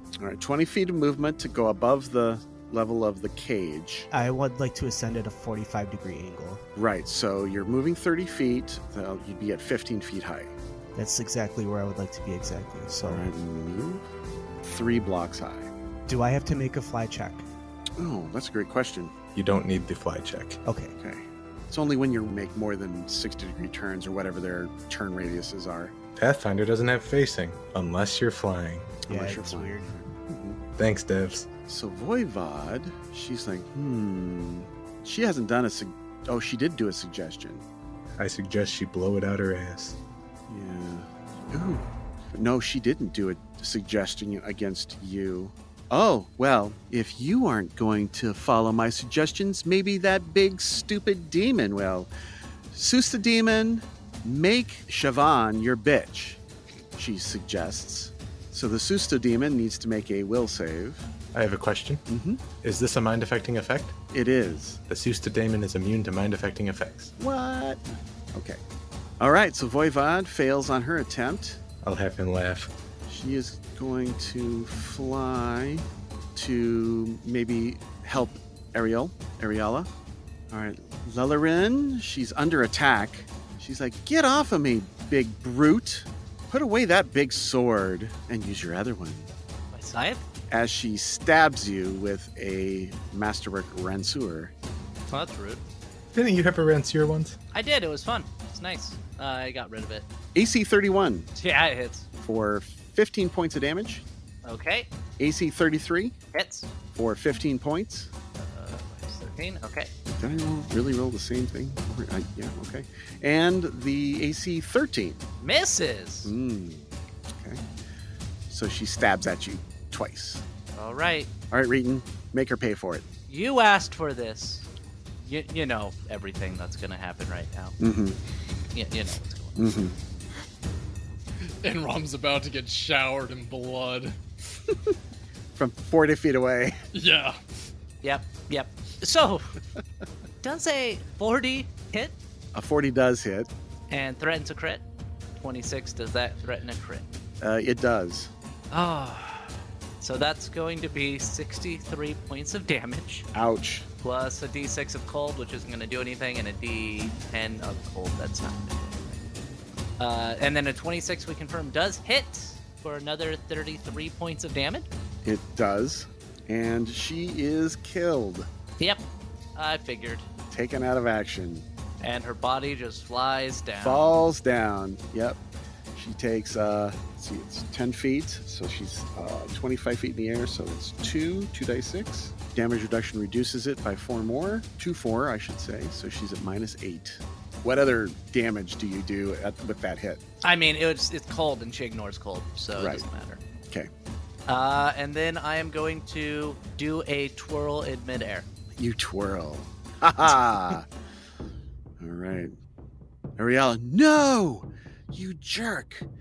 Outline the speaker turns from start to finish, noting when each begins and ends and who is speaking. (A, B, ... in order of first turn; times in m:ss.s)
0:00.2-0:04.1 A
0:04.1-0:06.6 B
0:06.7-0:10.5 A
0:10.9-0:13.3 B
0:13.0-0:14.0 A
0:14.6-0:15.7 A
0:16.1-0:17.4 B
0:18.0-0:19.1 A
0:19.3-0:20.6 C
0:20.6-0:21.0 B
0:21.0-0:25.9 A
0:26.2-0:29.0 C
0:29.0-0:29.7 A
0:29.1-0:30.1 B
0:30.3-0:30.6 A
0:30.8-0:31.5 C
0:31.6-0:37.6 A
0:38.2-0:40.0 C
0:40.5-0:52.1 A
0:52.7-0:56.4 A
0:57.0-1:01.1 A
1:01.3-1:04.0 C
1:02.1-1:02.4 A
1:04.1-1:04.8 A
1:04.9-1:07.1 C
1:07.2-1:08.6 A
1:09.2-1:11.6 A
1:11.8-1:12.7 C
1:13.1-1:19.9 A
1:20.5-1:29.3 A
1:29.7-1:30.2 D
1:30.5-1:34.5 A
1:35.1-1:35.6 D
1:36.1-1:37.4 C
1:37.5-1:40.1 D
1:40.3-1:41.3 A
1:41.3-1:42.1 D
1:42.2-1:44.0 A
1:44.4-1:44.9 D
1:45.2-1:46.2 A
1:46.3-1:46.7 D
1:46.9-1:48.1 A
1:48.3-1:49.9 D
1:50.1-1:55.2 A
1:55.4-1:56.3 D
1:56.2-1:57.6 A
1:58.5-2:00.4 A
2:00.7-2:01.3 D
2:01.5-2:03.0 A
2:03.3-2:04.7 D
2:05.2-2:07.7 D
2:07.8-2:08.2 A
2:08.7-2:09.6 D
2:09.6-2:10.0 A
2:11.6-2:14.2 E
2:15.5-2:16.8 A
2:16.9-2:17.4 E
2:18.0-2:19.5 D
2:20.4-2:22.2 D
2:22.5-2:23.5 A
2:23.9-2:24.8 D
2:25.4-2:27.1 D
2:27.4-2:28.3 A
2:28.7-2:33.3 D
2:33.3-2:33.9 A
2:34.0-2:39.2 D
2:40.0-2:44.9 D
2:45.2-2:48.5 A
2:48.8-2:49.0 D
2:49.5-2:50.2 D
2:50.5-2:51.6 A
2:52.0-2:54.2 D
2:53.8-2:55.4 A
2:55.9-3:10.2 A
3:10.4-3:13.4 D
3:12.8-3:13.0 A
3:14.5-3:18.5 D
3:18.8-3:20.9 A
3:22.0-3:22.5 A
3:23.4-3:26.1 A